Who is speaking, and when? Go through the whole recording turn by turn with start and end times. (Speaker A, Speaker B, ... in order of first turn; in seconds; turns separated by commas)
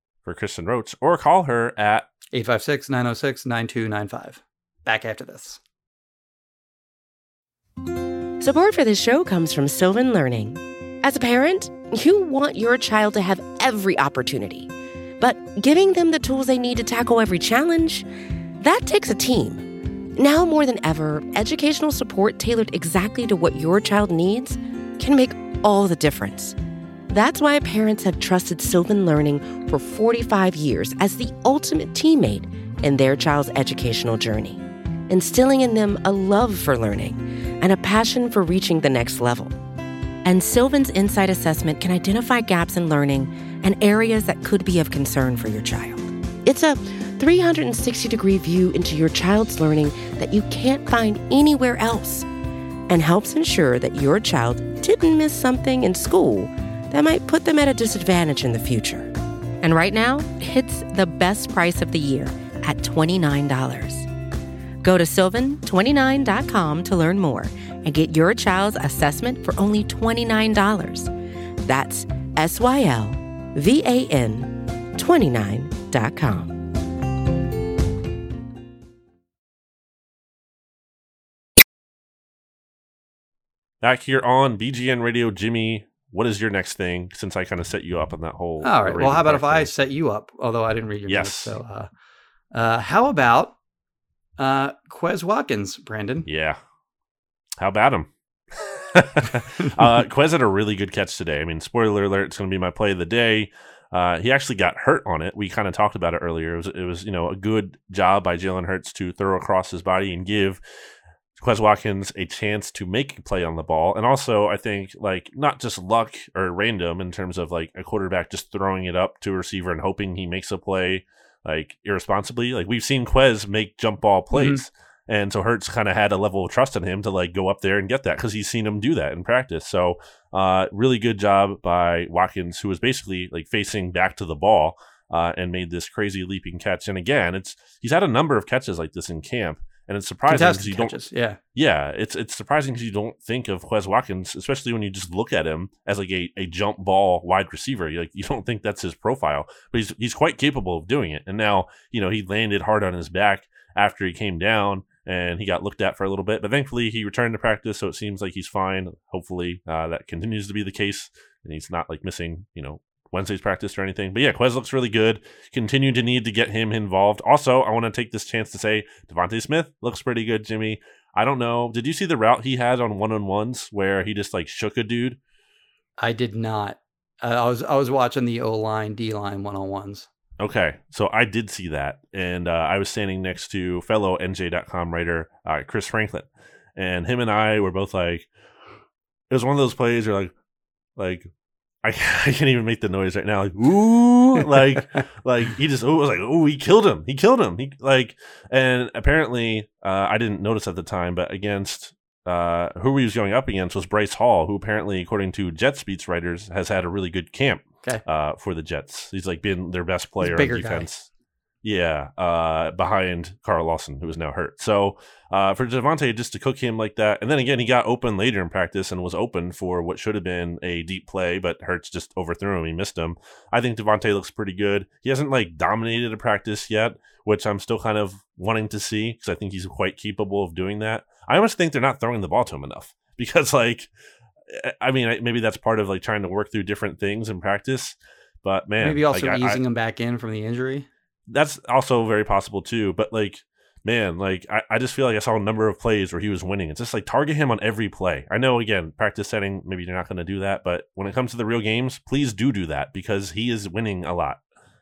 Speaker A: 0.2-2.1, Speaker B: 2.3-5.6, Speaker C: 8.4-18.1, Speaker C: 18.6-26.6, Speaker C: 27.1-39.6, Speaker C: 40.2-52.3, Speaker C: 52.9-64.1, Speaker C: 64.8-71.1, Speaker C: 71.6-76.7, Speaker A: 83.8-89.7, Speaker B: 88.6-91.9, Speaker A: 91.1-91.5, Speaker B: 92.5-93.5, Speaker B: 94.4-96.3, Speaker A: 96.2-96.6, Speaker A: 97.6-110.6, Speaker A: 111.4-140.9, Speaker B: 124.3-124.6, Speaker B: 140.3-141.4, Speaker A: 141.5-175.2, Speaker B: 176.0-180.1, Speaker A: 180.4-188.3, Speaker A: 189.3-190.3, Speaker A: 190.9-191.3, Speaker A: 191.8-211.1, Speaker B: 210.2-210.9, Speaker A: 211.6-233.9, Speaker A: 234.5-239.6, Speaker B: 238.8-240.9, Speaker A: 241.3-254.4